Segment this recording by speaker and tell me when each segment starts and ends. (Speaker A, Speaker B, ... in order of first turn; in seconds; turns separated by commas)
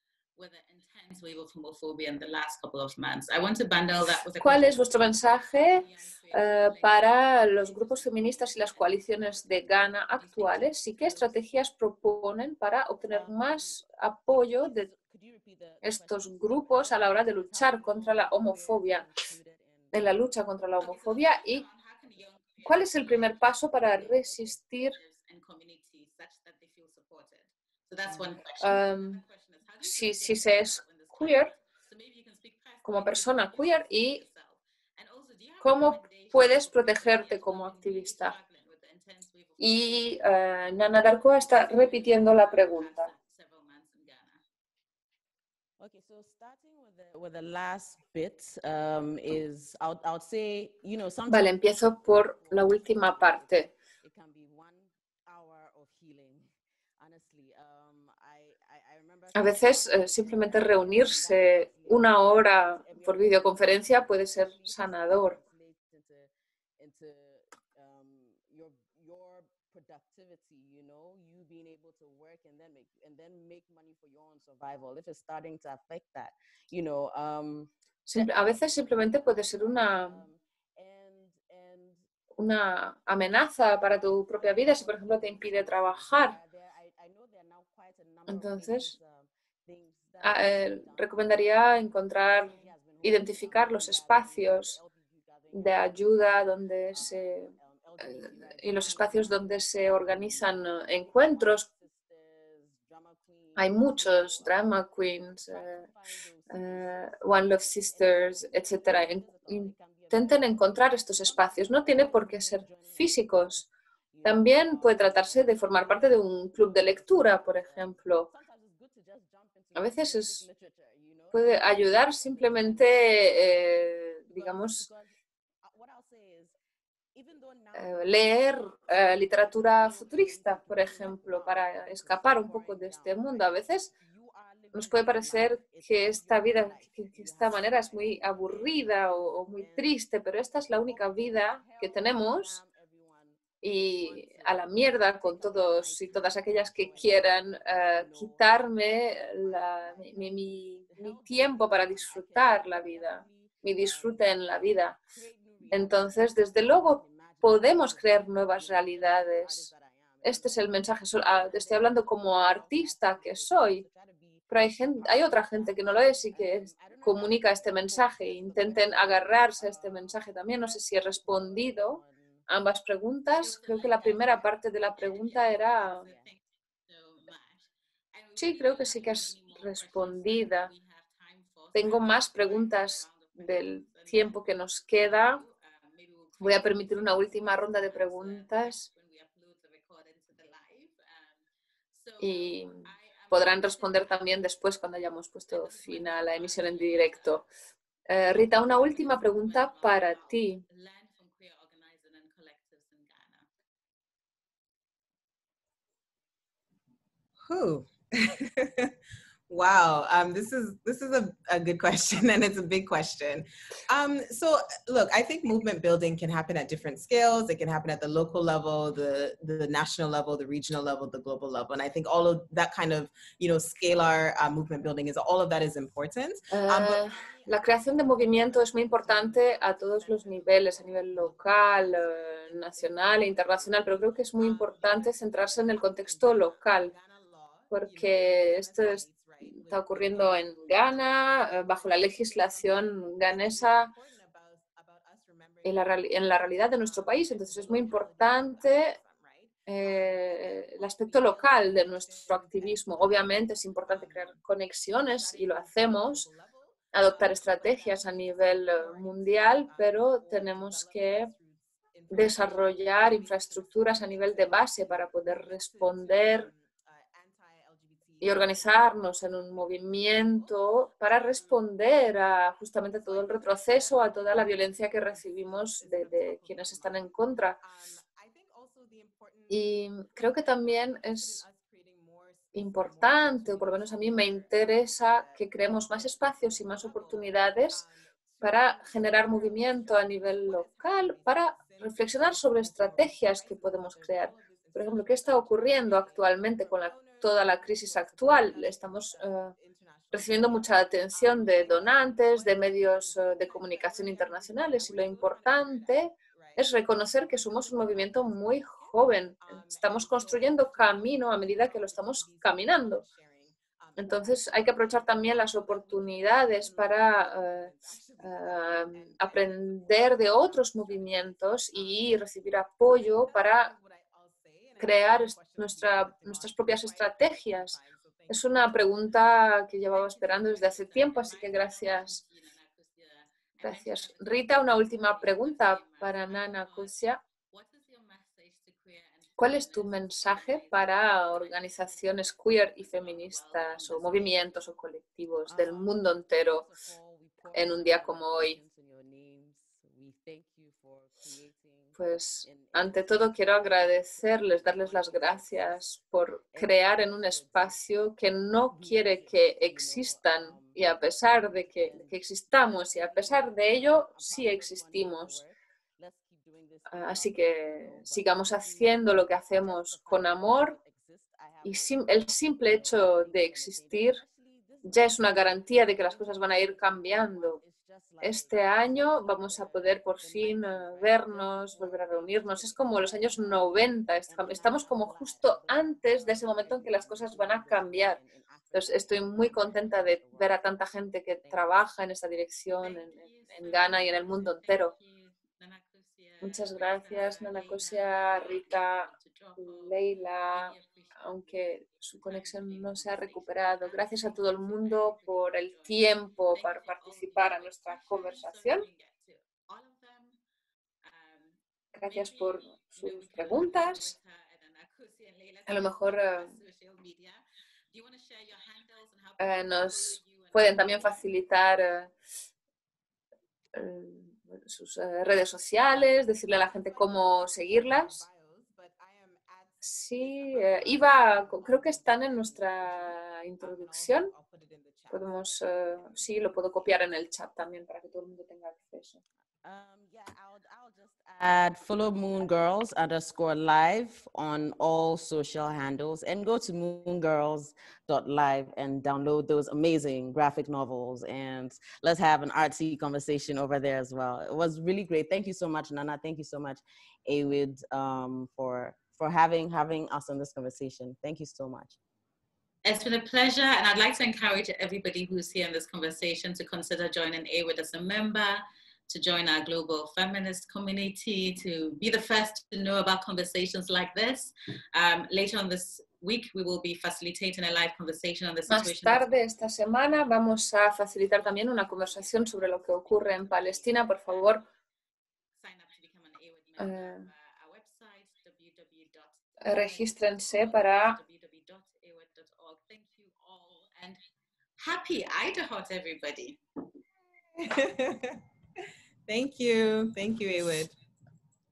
Speaker A: 0.4-5.0, Speaker B: 4.4-14.9, Speaker A: 5.8-7.5, Speaker B: 15.8-19.1, Speaker B: 19.9-21.7, Speaker A: 21.6-23.1, Speaker B: 22.6-25.0, Speaker A: 25.0-33.2, Speaker B: 28.6-29.2, Speaker B: 29.8-31.5, Speaker B: 32.9-34.2, Speaker A: 34.2-40.0, Speaker B: 35.6-38.4, Speaker B: 39.6-43.1, Speaker A: 41.7-44.4, Speaker C: 45.8-51.5, Speaker B: 51.3-53.7, Speaker C: 54.1-54.5, Speaker B: 59.4-65.4, Speaker C: 72.7-73.6, Speaker C: 74.3-77.7, Speaker B: 78.1-80.2, Speaker B: 82.4-86.4, Speaker B: 88.3-89.0, Speaker B: 90.2-94.8, Speaker B: 95.5-101.7, Speaker B: 103.6-105.9, Speaker B: 106.5-113.7, Speaker B: 114.2-118.3, Speaker B: 119.8-120.5, Speaker B: 121.3-124.9, Speaker B: 127.7-133.9, Speaker B: 134.7-142.6, Speaker B: 143.6-155.0, Speaker B: 155.7-163.9, Speaker B: 164.5-176.1, Speaker A: 176.1-178.4, Speaker B: 178.4-180.7, Speaker A: 180.7-184.1, Speaker B: 181.7-185.4, Speaker A: 185.4-187.8, Speaker B: 186.4-188.9, Speaker A: 188.6-191.4, Speaker A: 191.9-194.1, Speaker B: 192.2-197.5, Speaker A: 195.6-197.4, Speaker B: 198.1-200.6, Speaker A: 198.8-203.5, Speaker D: 207.4-208.9, Speaker D: 209.5-227.0, Speaker B: 226.5-237.0, Speaker B: 237.7-243.9, Speaker B: 245.6-249.0, Speaker B: 249.7-256.3, Speaker B: 256.9-261.3, Speaker B: 262.1-266.5, Speaker B: 268.2-277.6, Speaker B: 279.5-281.4, Speaker B: 282.5-287.9, Speaker B: 288.4-299.6, Speaker B: 300.1-313.1, Speaker B: 314.0-323.8, Speaker B: 324.8-332.2, Speaker A: 332.1-334.2, Speaker B: 333.6-337.2, Speaker A: 337.5-339.4, Speaker B: 339.4-346.7, Speaker B: 347.5-348.6, Speaker B: 351.9-365.4, Speaker B: 366.9-370.8, Speaker B: 371.6-374.2, Speaker B: 374.9-377.6, Speaker B: 378.2-388.2, Speaker B: 388.7-394.9, Speaker A: 393.1-393.6, Speaker A: 394.9-397.7, Speaker B: 396.4-408.9, Speaker A: 399.1-399.6, Speaker A: 400.8-401.1, Speaker A: 407.5-410.4, Speaker A: 411.1-411.5, Speaker B: 411.9-414.1, Speaker A: 413.0-419.4, Speaker B: 415.7-416.5, Speaker B: 419.4-422.1, Speaker B: 423.7-428.3, Speaker B: 429.8-434.3, Speaker B: 435.1-439.2, Speaker C: 439.6-462.0, Speaker A: 462.8-479.2, Speaker B: 478.7-484.7, Speaker A: 485.6-494.2, Speaker B: 486.8-487.3, Speaker B: 489.6-491.2, Speaker A: 494.8-496.6, Speaker D: 497.6-498.4, Speaker D: 499.3-500.9